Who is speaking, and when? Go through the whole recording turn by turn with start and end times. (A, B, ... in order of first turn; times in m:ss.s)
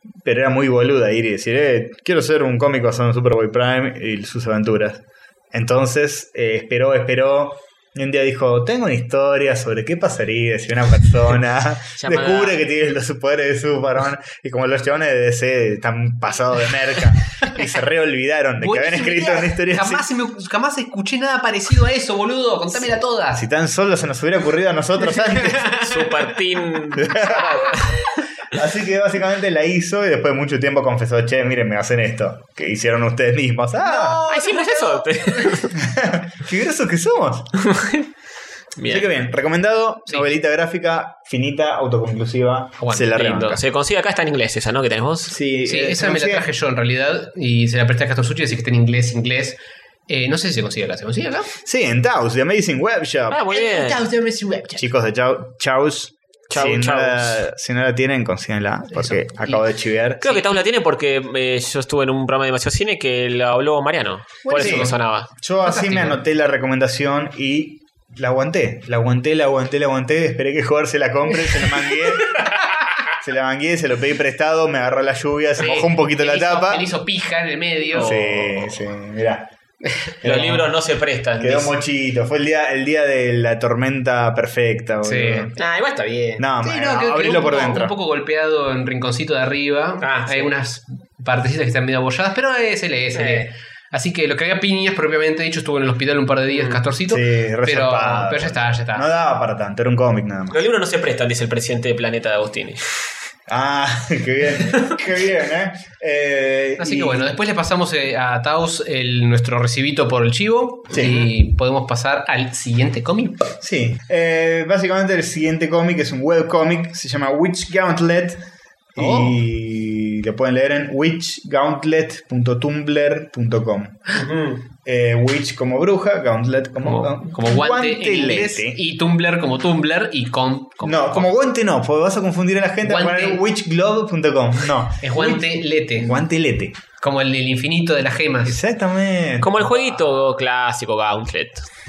0:00.2-0:20.0 A
0:12.0-0:12.6 B
0:18.6-0:23.4 C
0:23.3-0:25.8 A
0:25.4-0:26.1 C
0:25.7-0:27.9 B
0:26.9-0:27.9 A
0:28.5-0:34.2 A
0:33.8-0:35.6 C
0:34.3-0:35.8 B
0:35.8-0:37.6 A
0:37.6-0:38.1 B
0:38.8-0:39.0 B
0:38.8-0:43.6 A
0:42.8-0:43.1 C
0:43.1-0:45.4 B
0:45.3-0:46.5 A
0:45.6-0:51.5 C
0:51.6-0:53.4 A
0:53.3-0:54.0 B
0:53.5-0:54.9 C
0:54.8-1:00.3 A
0:56.5-0:57.4 B
0:59.0-0:59.6 C
1:00.2-1:05.3 B
1:04.5-1:05.0 C
1:04.5-1:12.4 A
1:05.6-1:06.2 C
1:13.2-1:16.9 A
1:15.6-1:18.1 C
1:17.9-1:18.8 B
1:18.0-1:19.5 A
1:20.2-1:20.6 A
1:20.2-1:21.7 B
1:21.4-1:25.6 A
1:25.0-1:25.5 C
1:25.6-1:26.5 B
1:26.4-1:27.9 A
1:26.6-1:39.1 C
1:30.0-1:30.5 B
1:33.1-1:33.5 B
1:36.5-1:36.8 B
1:37.1-1:40.6 A
1:40.5-1:42.8 B
1:43.5-1:47.3 A
1:46.8-1:53.5 C
1:50.9-1:51.3 A
1:53.6-1:58.4 A
1:58.9-2:04.2 A
1:59.0-1:59.4 C
2:04.1-2:04.6 B
2:04.8-2:08.8 A
2:06.8-2:11.3 C
2:10.8-2:16.8 A
2:12.8-2:13.4 C
2:15.0-2:16.2 C
2:17.0-2:18.6 C
2:18.4-2:20.0 A
2:19.4-2:21.7 B